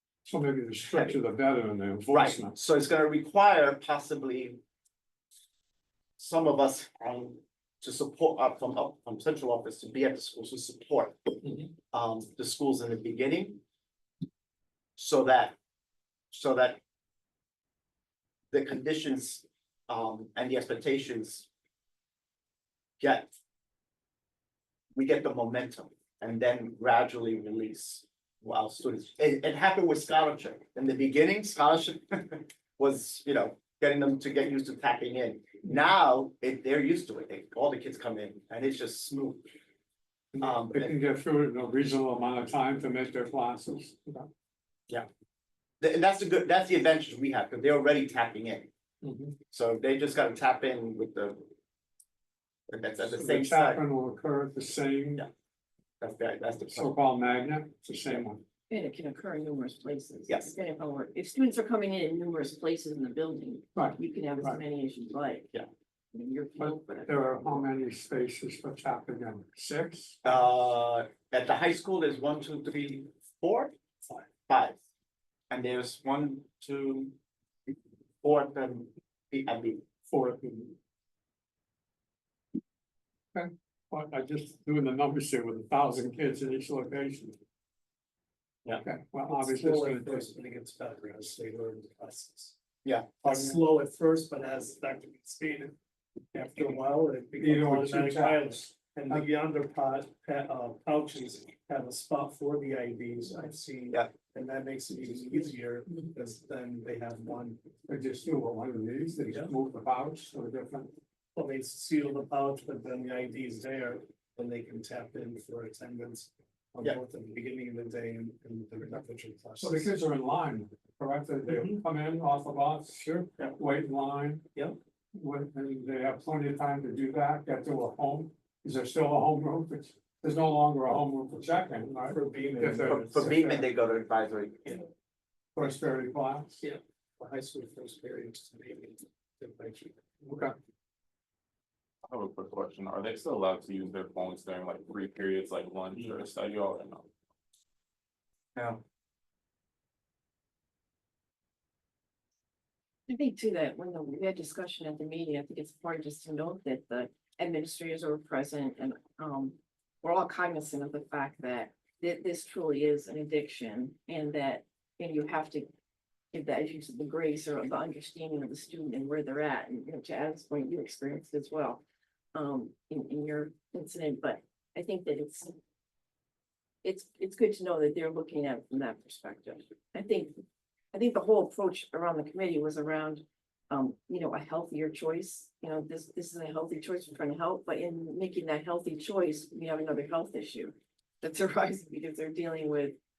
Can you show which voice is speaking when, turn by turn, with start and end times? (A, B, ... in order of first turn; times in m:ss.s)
0:00.2-0:02.5 A
0:00.9-0:01.2 B
0:02.1-0:04.6 B
0:06.2-0:11.4 B
0:11.9-0:13.6 B
0:15.0-0:15.6 B
0:16.3-0:16.8 B
0:18.5-0:21.5 B
0:23.0-0:23.3 B
0:24.9-0:39.5 B
0:40.3-0:44.3 A
0:40.4-0:40.9 B
0:45.8-0:48.7 B
0:49.0-0:49.4 A
0:49.5-0:51.5 B
0:52.7-0:53.8 B
0:53.1-0:55.2 A
0:56.0-0:56.9 B
0:56.7-0:58.4 A
0:58.7-1:05.5 C
1:03.7-1:04.6 A
1:06.1-1:07.5 C
1:06.6-1:10.3 A
1:10.2-1:13.7 B
1:14.5-1:14.8 B
1:15.5-1:17.2 B
1:18.2-1:19.8 B
1:20.1-1:20.8 A
1:23.3-1:27.4 A
1:28.8-1:30.3 A
1:29.3-1:32.5 D
1:32.8-1:33.5 B
1:33.2-1:35.7 D
1:36.3-1:47.6 D
1:37.4-1:39.2 A
1:47.9-1:51.0 A
1:51.3-1:59.9 D
1:59.6-2:04.4 A
2:01.4-2:01.8 D
2:05.1-2:13.0 A
2:12.1-2:13.7 D
2:12.8-2:14.8 B
2:15.6-2:16.6 A
2:16.6-2:20.1 D
2:20.2-2:20.5 A
2:22.0-2:27.1 E
2:28.6-2:28.8 B
2:33.1-2:45.7 C
2:46.3-2:51.8 C
2:52.3-2:55.6 C
2:56.8-3:00.4 C
3:00.9-3:13.0 C